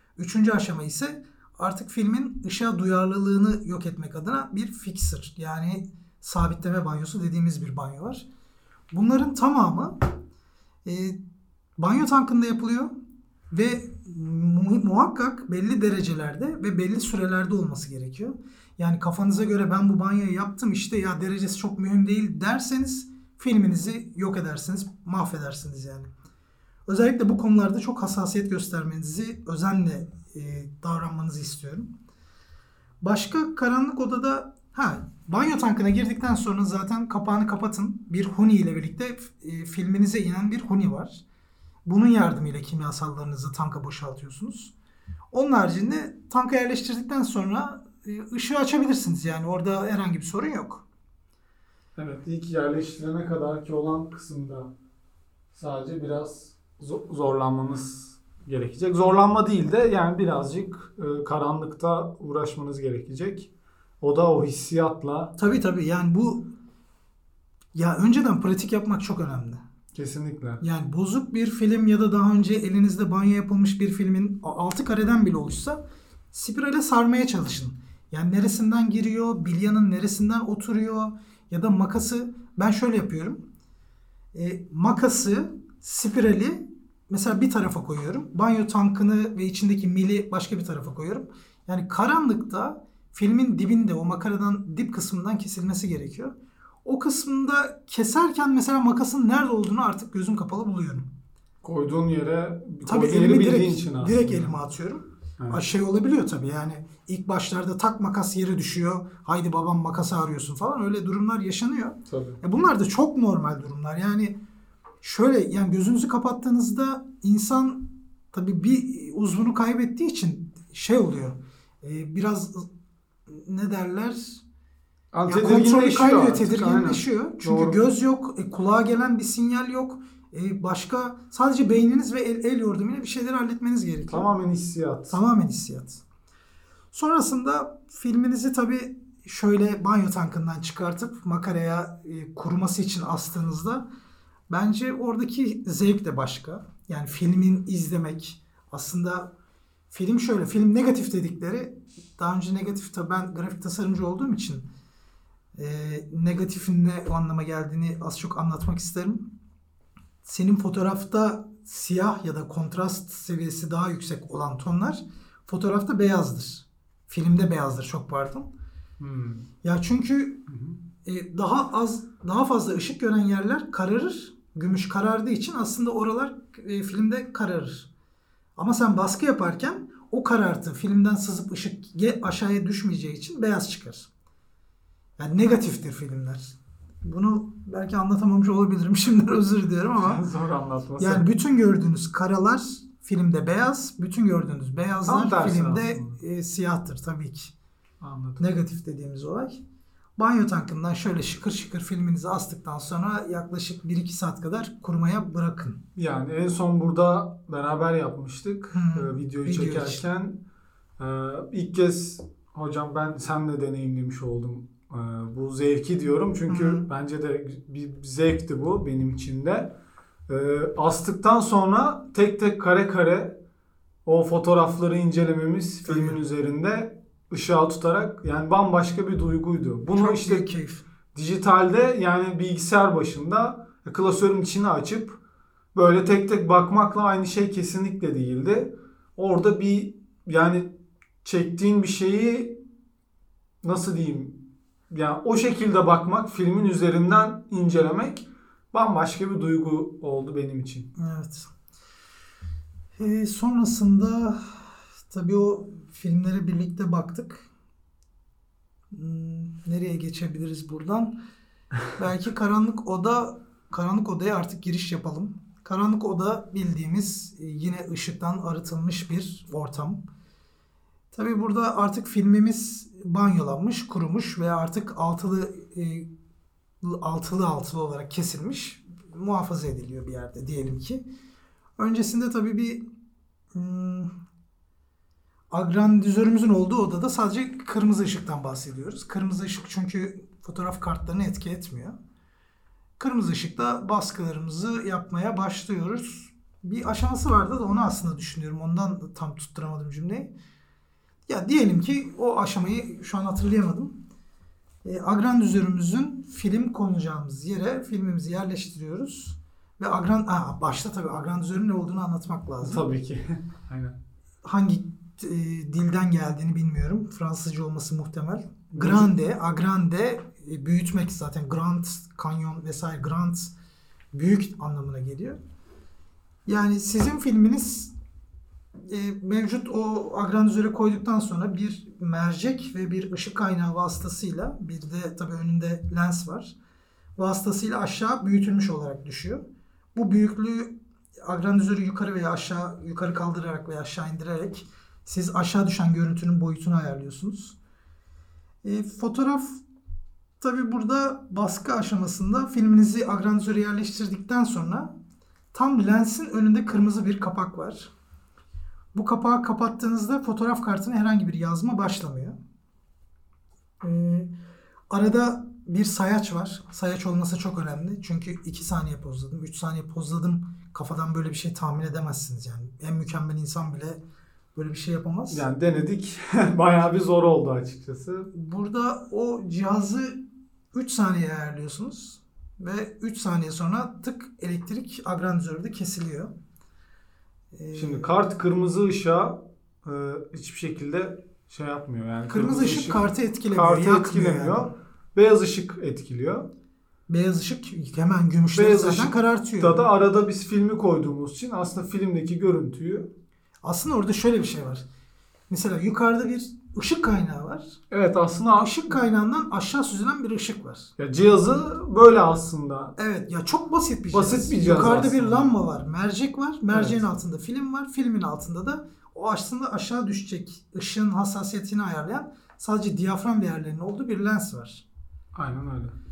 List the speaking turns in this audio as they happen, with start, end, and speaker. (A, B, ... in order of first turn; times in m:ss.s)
0:00.2-0:08.3 A
0:08.9-0:10.0 A
0:10.8-0:11.2 A
0:11.8-0:12.9 A
0:13.5-0:26.1 A
0:26.9-0:31.9 A
0:33.0-0:41.2 A
0:41.9-0:44.7 A
0:45.3-0:50.8 A
0:52.0-0:54.7 B
0:55.5-1:05.3 B
1:05.4-1:06.5 A
1:07.7-1:09.6 A
1:09.9-1:10.6 B
1:10.6-1:15.8 A
1:16.3-1:23.4 A
1:24.3-1:36.3 A
1:36.8-1:41.1 A
1:41.6-1:44.6 B
1:42.8-1:54.4 A
1:52.1-1:52.4 B
1:55.0-2:02.7 A
2:03.3-2:04.4 A
2:05.1-2:07.8 B
2:05.3-2:14.3 A
2:14.1-2:15.2 B
2:15.1-2:16.0 A
2:16.9-2:23.8 A
2:24.5-2:29.3 A
2:29.9-2:34.7 A
2:35.6-2:39.3 A
2:40.2-2:48.5 A
2:49.0-2:49.5 B
2:49.6-2:50.4 A
2:50.5-2:50.8 B
2:51.0-2:57.9 A
2:58.6-3:04.1 A
3:05.2-3:10.2 A
3:09.9-3:11.3 B
3:11.0-3:17.5 A
3:15.1-3:16.2 B
3:18.0-3:18.4 B
3:18.4-3:19.6 A
3:20.2-3:25.8 A
3:26.0-3:30.4 B
3:28.7-3:30.0 A
3:31.0-3:39.7 B
3:36.5-3:36.9 A
3:40.3-3:43.4 B
3:44.0-3:50.5 B
3:45.8-3:46.2 A
3:49.9-3:50.8 A
3:51.1-3:55.2 B
3:55.7-4:02.6 B
4:03.6-4:10.9 B
4:11.0-4:11.5 A
4:13.0-4:17.5 A
4:18.9-4:21.1 A
4:21.9-4:30.0 A
4:31.1-4:36.1 A
4:36.8-4:41.0 A
4:41.8-4:42.8 A
4:43.5-4:44.1 A
4:45.5-4:52.0 A
4:53.0-5:00.3 A
5:01.3-5:04.0 A
5:04.8-5:12.8 A
5:12.6-5:14.0 B
5:14.4-5:23.5 A
5:18.7-5:19.1 B
5:24.1-5:25.4 A
5:26.5-5:27.9 A
5:28.9-5:36.6 A
5:37.2-5:39.4 A
5:40.0-5:47.6 A
5:48.6-5:49.6 A
5:50.4-5:54.9 A
5:55.5-5:57.9 A
5:58.9-6:02.4 A
6:03.8-6:04.3 A
6:04.9-6:14.0 A
6:14.6-6:15.4 A
6:15.3-6:18.3 B
6:18.3-6:20.2 A
6:20.7-6:26.3 A
6:27.5-6:28.1 A
6:27.8-6:36.5 B
6:32.3-6:34.7 A
6:37.1-6:39.8 A
6:38.6-6:43.1 B
6:43.6-6:44.8 A
6:45.5-6:47.8 A
6:47.9-6:48.9 B
6:48.6-6:50.9 A
6:51.0-6:53.0 B
6:53.0-7:04.8 A
6:54.1-6:55.5 B
6:56.7-6:57.1 B
7:05.3-7:06.0 B